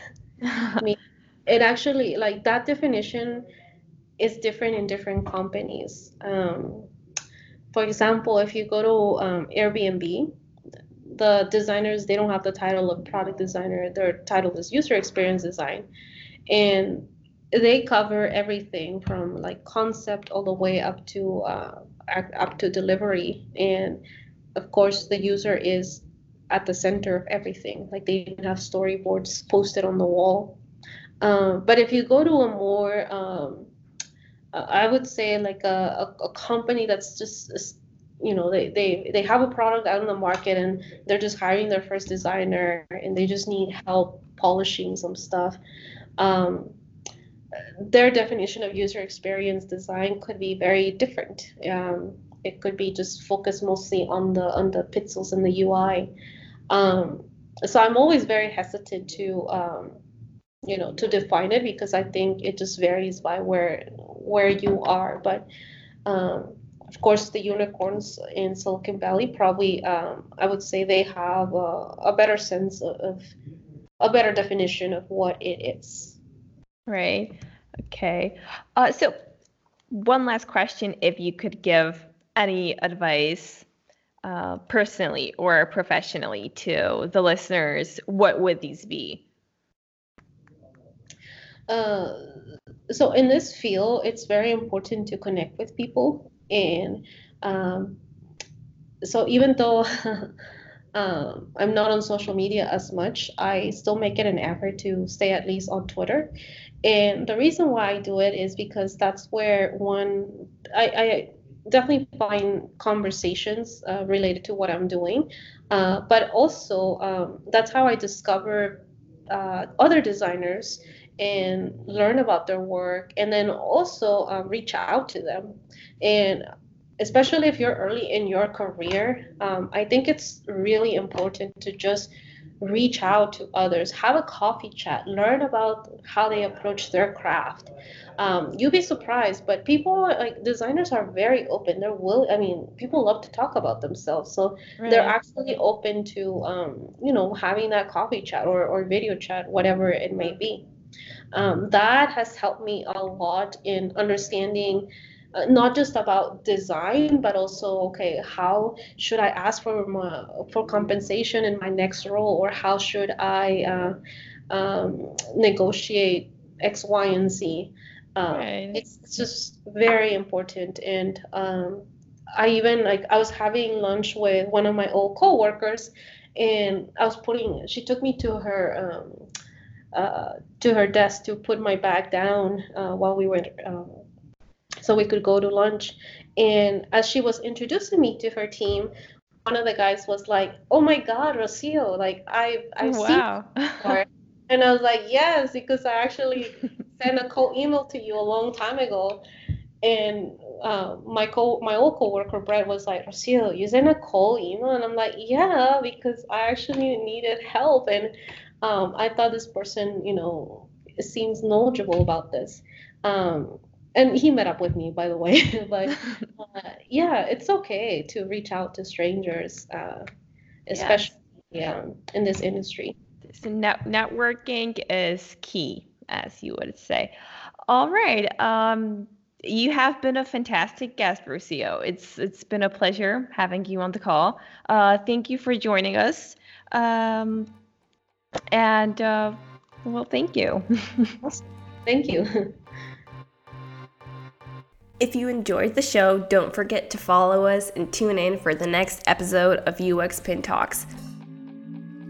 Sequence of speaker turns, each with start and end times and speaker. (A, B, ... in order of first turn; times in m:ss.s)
0:00.5-0:00.8 A
0:00.8-0:03.4 B
0:04.2-0:06.9 B
0:07.7-0:10.3 B
0:11.1-0:15.9 B
0:16.5-0:24.0 B
0:24.6-0:30.6 B
0:31.2-0:33.7 B
0:34.5-0:45.6 B
0:46.2-0:46.8 B
0:47.8-0:56.1 B
0:56.7-1:00.0 B
1:00.6-1:05.5 B
1:06.1-1:13.3 B
1:14.0-1:16.2 B
1:16.9-1:19.2 A
1:19.9-1:23.6 A
1:24.2-1:29.2 A
1:31.7-1:32.3 B
1:32.9-1:38.0 B
1:39.0-1:40.3 B
1:41.0-1:46.3 B
1:46.8-2:06.5 B
2:07.0-2:30.6 B
2:24.8-2:25.2 A
2:31.3-2:44.0 B
2:44.5-2:59.2 B
2:48.3-2:48.8 A
2:59.9-3:04.0 B
3:04.8-3:08.9 B
3:09.5-3:13.3 B
3:12.8-3:14.0 A
3:13.8-3:19.2 B
3:19.8-3:28.1 B
3:28.6-3:40.0 B
3:40.7-3:43.0 B
3:40.7-3:41.1 A
3:43.2-3:47.1 A
3:47.7-3:57.5 A
3:58.5-4:01.2 A
4:01.2-4:02.5 B
4:05.0-4:10.9 C